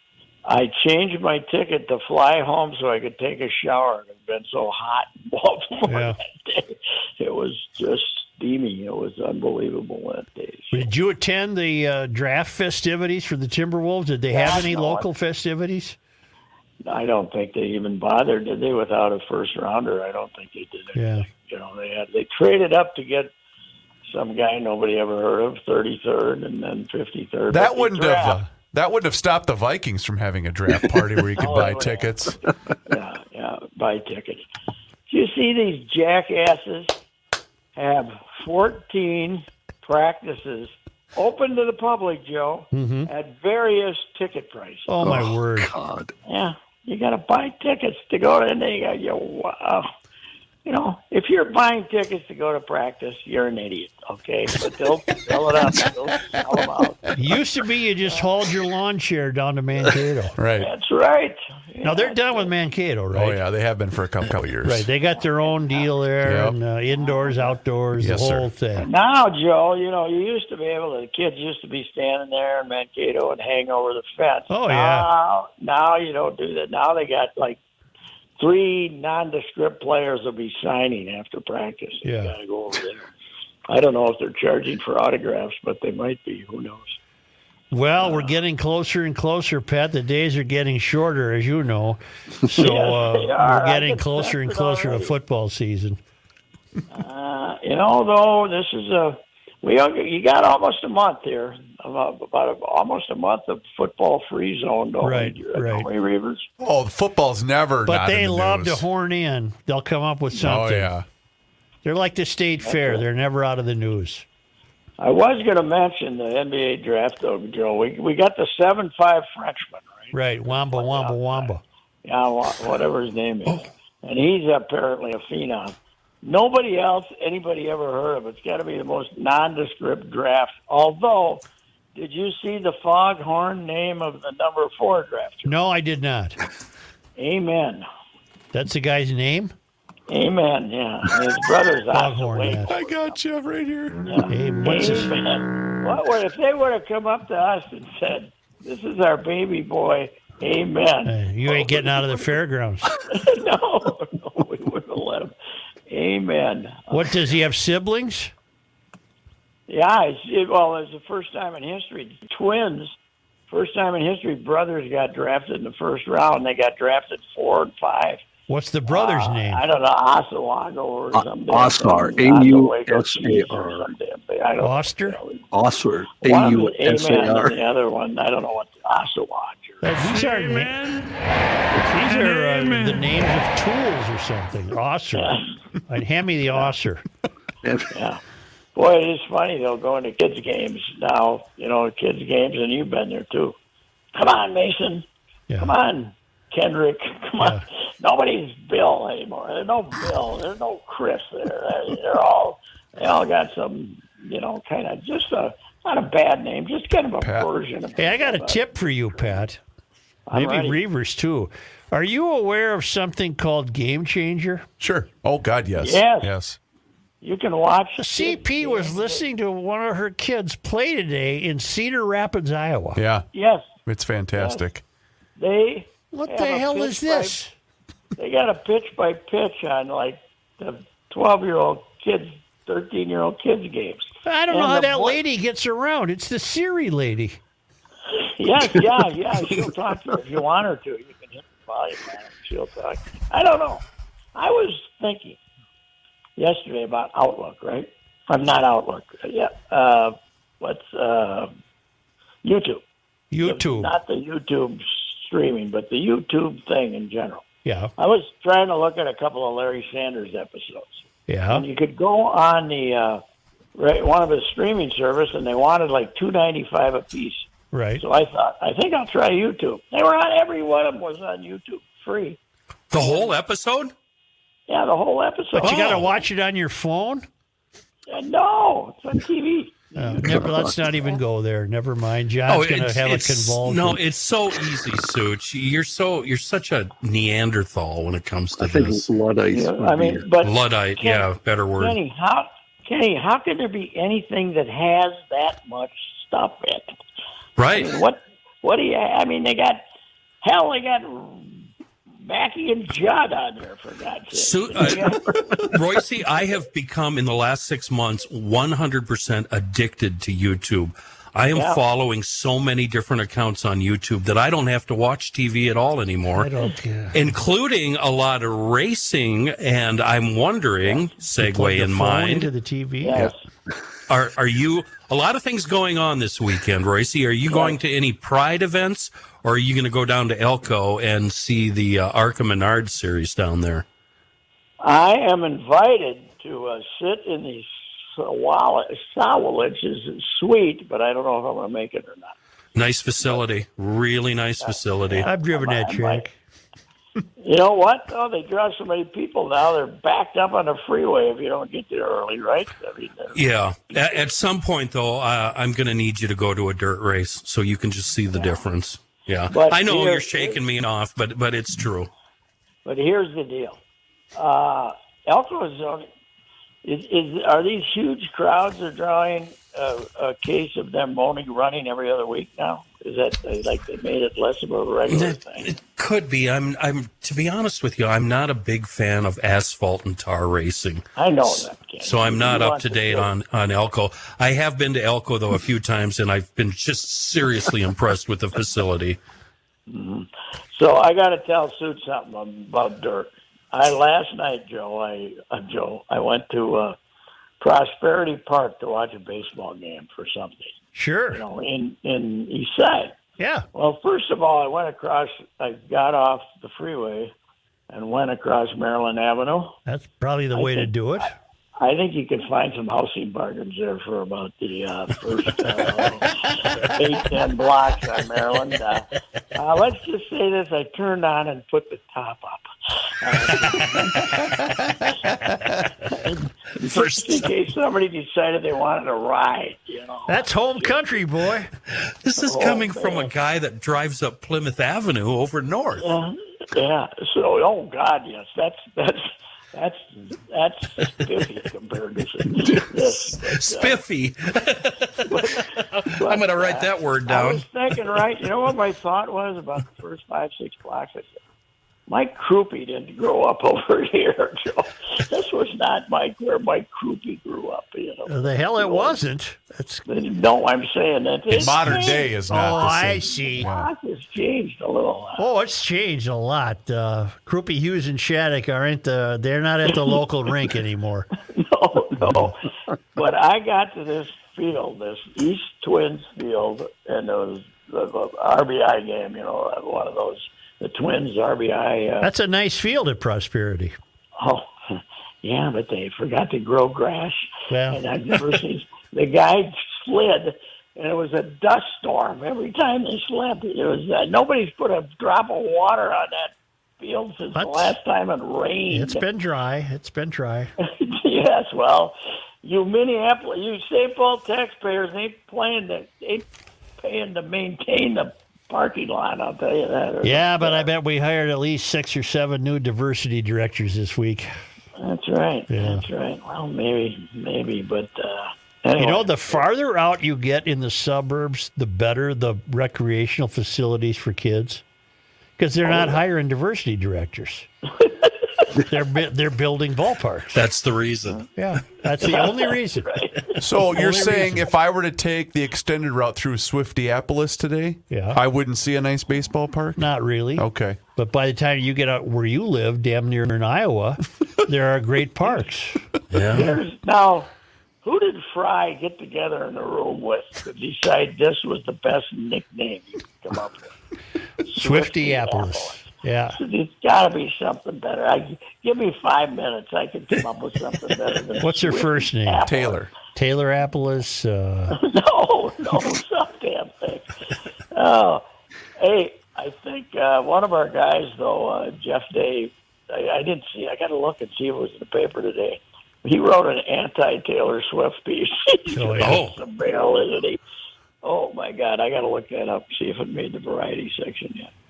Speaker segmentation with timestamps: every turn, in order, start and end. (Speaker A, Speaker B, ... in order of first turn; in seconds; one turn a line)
Speaker A: 0.5-10.9
Speaker B: 5.9-6.2
Speaker B: 10.7-16.0
Speaker A: 14.3-15.1
Speaker A: 16.9-23.3
Speaker B: 20.9-21.3
Speaker A: 24.1-28.4
Speaker C: 27.5-32.4
Speaker A: 31.4-32.3
Speaker A: 32.9-34.5
Speaker A: 35.1-37.0
Speaker A: 37.8-45.1
Speaker B: 42.7-43.1
Speaker B: 44.9-45.7
Speaker D: 45.0-46.1
Speaker A: 46.3-49.9
Speaker A: 50.7-57.1
Speaker B: 57.1-60.4
Speaker C: 60.4-60.7
Speaker A: 60.6-62.5
Speaker B: 61.8-63.4
Speaker C: 63.1-64.9
Speaker B: 64.6-68.9
Speaker A: 65.2-65.9
Speaker C: 66.2-66.6
Speaker A: 66.9-67.6
Speaker C: 68.0-68.5
Speaker A: 68.8-77.6
Speaker B: 74.5-75.1
Speaker A: 78.4-83.1
Speaker B: 82.0-82.3
Speaker A: 83.7-86.9
Speaker B: 87.7-96.0
Speaker A: 88.0-88.4
Speaker A: 92.5-95.2
Speaker A: 96.9-106.5
Speaker B: 105.0-105.9
Speaker C: 106.6-108.9
Speaker B: 107.9-110.9
Speaker C: 110.3-111.1
Speaker B: 111.8-114.2
Speaker A: 112.6-113.0
Speaker A: 115.0-131.4
Speaker B: 120.1-121.6
Speaker A: 132.0-135.6
Speaker B: 135.4-136.4
Speaker A: 137.2-137.8
Speaker B: 138.5-139.5
Speaker A: 140.1-143.2
Speaker B: 141.9-142.8
Speaker C: 142.7-144.3
Speaker A: 144.1-152.4
Speaker B: 144.3-145.2
Speaker B: 151.1-152.9
Speaker A: 153.0-155.3
Speaker A: 155.9-157.2
Speaker B: 156.9-158.3
Speaker A: 159.7-162.9
Speaker A: 163.5-168.2
Speaker B: 168.5-169.7
Speaker A: 168.9-175.5
Speaker D: 171.1-173.9
Speaker B: 174.6-175.2
Speaker D: 175.5-177.6
Speaker A: 176.2-179.8
Speaker B: 179.8-181.1
Speaker B: 181.8-187.0
Speaker A: 185.2-185.4
Speaker D: 187.6-187.9
Speaker A: 187.9-188.2
Speaker A: 188.8-193.6
Speaker A: 194.2-195.1
Speaker A: 195.6-208.7
Speaker C: 207.2-207.5
Speaker B: 208.0-209.6
Speaker A: 210.3-210.8
Speaker B: 210.3-214.7
Speaker C: 214.8-216.6
Speaker A: 215.8-216.3
Speaker A: 217.2-219.3
Speaker B: 218.0-223.0
Speaker C: 223.0-223.3
Speaker A: 223.3-223.8
Speaker C: 223.8-224.8
Speaker A: 224.3-224.7
Speaker A: 225.4-227.4
Speaker B: 226.1-227.5
Speaker A: 228.2-235.2
Speaker B: 234.3-237.4
Speaker A: 238.1-243.8
Speaker A: 244.3-245.4
Speaker A: 246.4-251.5
Speaker A: 252.4-252.8
Speaker B: 253.3-253.9
Speaker A: 253.4-257.5
Speaker B: 257.7-257.9
Speaker A: 258.0-263.2
Speaker B: 261.3-261.6
Speaker A: 263.8-272.4
Speaker B: 267.7-268.0
Speaker E: 272.9-273.9
Speaker A: 272.9-273.3
Speaker A: 274.7-276.0
Speaker B: 275.6-277.3
Speaker E: 275.6-276.1
Speaker A: 278.1-280.6
Speaker B: 279.9-284.0
Speaker D: 280.2-280.8
Speaker E: 282.5-289.1
Speaker D: 288.6-290.3
Speaker A: 289.5-296.9
Speaker E: 290.4-292.0
Speaker E: 297.6-298.0
Speaker A: 297.7-299.8
Speaker A: 300.4-301.6
Speaker A: 302.2-305.8
Speaker E: 304.3-316.5
Speaker A: 311.6-311.8
Speaker B: 316.3-317.2
Speaker E: 317.1-322.5
Speaker B: 321.4-323.3
Speaker A: 323.0-323.4
Speaker E: 324.1-333.9
Speaker A: 327.5-327.8
Speaker A: 334.8-342.4
Speaker E: 342.8-345.3
Speaker A: 344.6-346.3
Speaker B: 345.2-346.3
Speaker A: 347.4-353.4
Speaker E: 353.3-362.1
Speaker A: 358.3-358.7
Speaker A: 359.5-360.6
Speaker A: 362.9-363.8
Speaker A: 364.4-366.1
Speaker A: 366.8-375.7
Speaker E: 375.1-389.2
Speaker A: 381.2-383.3
Speaker A: 389.9-397.0
Speaker A: 397.6-400.8
Speaker B: 400.9-401.4
Speaker A: 401.3-403.2
Speaker B: 403.4-403.7
Speaker A: 403.7-407.3
Speaker A: 407.9-409.8
Speaker B: 409.9-411.3
Speaker A: 410.5-422.7
Speaker A: 423.2-424.5
Speaker E: 423.5-423.9
Speaker A: 426.0-431.1
Speaker E: 426.8-427.5
Speaker B: 430.3-431.7
Speaker E: 431.9-436.1
Speaker A: 432.4-433.3
Speaker A: 436.0-444.0
Speaker E: 442.8-447.7
Speaker A: 445.2-451.4
Speaker A: 452.1-459.2
Speaker B: 458.3-460.1
Speaker A: 460.1-465.5
Speaker C: 461.5-463.9
Speaker B: 462.4-463.7
Speaker B: 465.4-471.3
Speaker A: 471.5-472.6
Speaker A: 473.2-482.3
Speaker B: 482.2-484.0
Speaker A: 484.4-499.2
Speaker B: 487.7-488.0
Speaker B: 497.6-498.0
Speaker B: 498.9-500.7
Speaker A: 500.8-506.5
Speaker A: 507.0-510.9
Speaker B: 510.2-514.5
Speaker A: 515.0-519.6
Speaker B: 515.7-516.1
Speaker B: 519.0-524.8
Speaker B: 525.6-527.7
Speaker A: 525.9-526.2
Speaker A: 528.0-528.7
Speaker B: 528.9-530.6
Speaker E: 530.5-531.5
Speaker B: 531.6-534.7
Speaker A: 532.2-533.6
Speaker C: 533.6-541.0
Speaker B: 538.1-538.4
Speaker B: 540.0-546.7
Speaker E: 546.3-546.7
Speaker A: 546.5-547.5
Speaker A: 548.0-553.9
Speaker A: 554.7-563.1
Speaker B: 554.7-556.6
Speaker B: 561.6-562.7
Speaker C: 562.7-563.1
Speaker B: 563.4-565.0
Speaker A: 564.9-567.3
Speaker A: 567.9-568.4
Speaker A: 569.0-580.6
Speaker B: 578.9-579.4
Speaker E: 579.2-579.6
Speaker A: 581.2-584.7